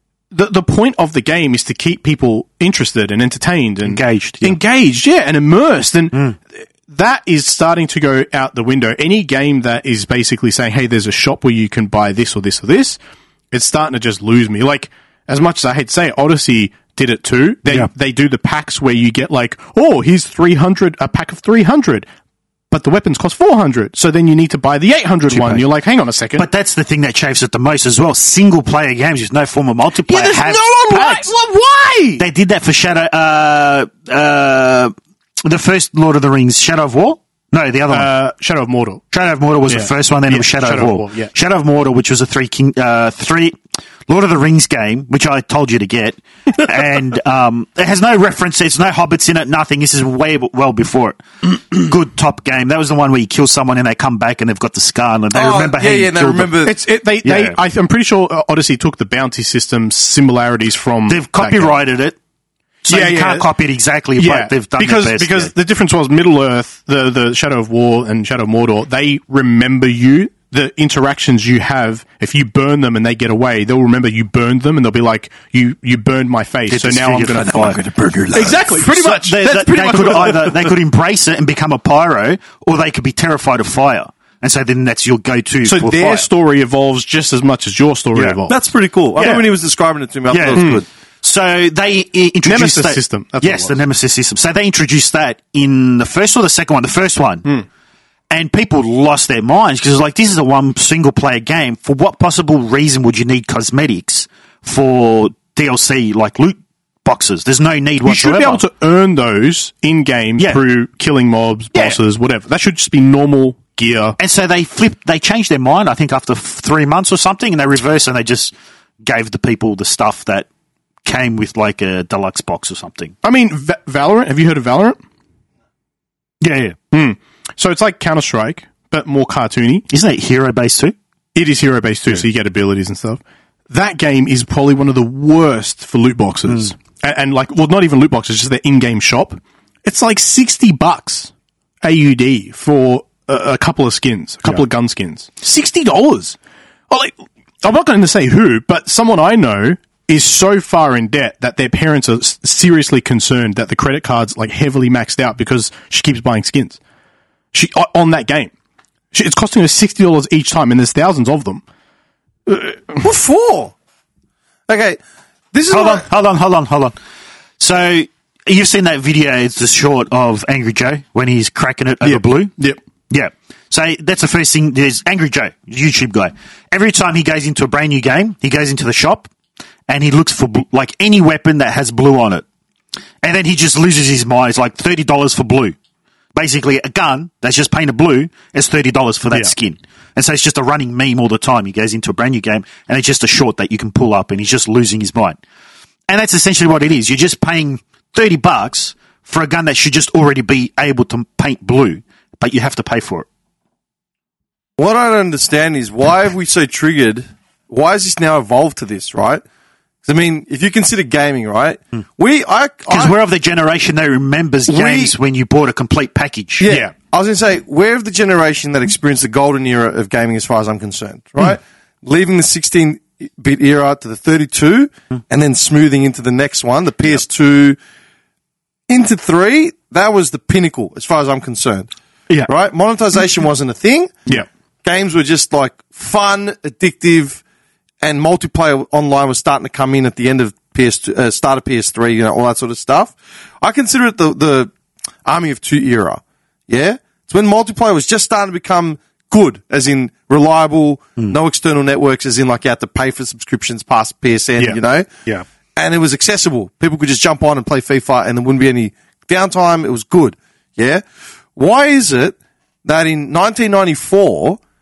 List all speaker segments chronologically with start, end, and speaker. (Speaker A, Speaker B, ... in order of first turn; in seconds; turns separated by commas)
Speaker A: 0.3-13.0, Speaker B: 3.9-4.6, Speaker A: 13.5-22.1, Speaker A: 22.7-26.5, Speaker B: 25.3-25.7, Speaker B: 26.4-31.3, Speaker A: 30.1-32.2, Speaker B: 32.2-38.1, Speaker A: 37.9-39.0, Speaker B: 39.1-56.6, Speaker A: 39.7-41.3, Speaker C: 55.3-56.8, Speaker A: 56.6-61.8, Speaker B: 57.2-57.6, Speaker B: 61.1-62.2, Speaker B: 62.9-65.5, Speaker A: 62.9-63.5, Speaker A: 64.2-77.8, Speaker B: 76.7-86.3, Speaker A: 78.3-80.7, Speaker A: 85.7-88.5, Speaker B: 88.2-88.4, Speaker C: 88.5-90.8, Speaker B: 89.2-89.5, Speaker B: 90.3-90.7, Speaker A: 90.5-90.8, Speaker B: 91.2-97.5, Speaker A: 92.4-93.8, Speaker B: 98.3-108.6, Speaker A: 108.0-114.2, Speaker B: 111.7-112.0, Speaker B: 114.2-120.5, Speaker B: 121.0-123.1, Speaker A: 123.2-125.0, Speaker B: 126.4-126.8, Speaker A: 126.9-129.9, Speaker B: 129.9-131.0, Speaker A: 131.3-141.3, Speaker B: 136.5-136.7, Speaker A: 141.8-146.4, Speaker A: 146.9-156.8, Speaker A: 157.5-158.5, Speaker A: 159.1-161.6, Speaker A: 162.5-163.0, Speaker C: 163.0-163.8, Speaker C: 164.7-165.0, Speaker C: 165.5-166.1, Speaker B: 165.7-166.9, Speaker B: 167.6-172.5, Speaker A: 172.0-172.8, Speaker B: 173.1-179.3, Speaker B: 179.9-182.4, Speaker B: 183.2-185.8, Speaker B: 186.3-195.4, Speaker B: 196.1-203.3, Speaker C: 204.8-209.4, Speaker C: 210.1-213.2, Speaker B: 212.9-216.7, Speaker C: 214.7-215.2, Speaker C: 216.6-227.8, Speaker A: 216.7-216.9, Speaker C: 228.9-231.9, Speaker C: 232.5-234.3, Speaker C: 234.8-237.4, Speaker C: 238.0-244.7, Speaker C: 245.2-255.1, Speaker C: 255.8-261.0, Speaker C: 261.6-264.6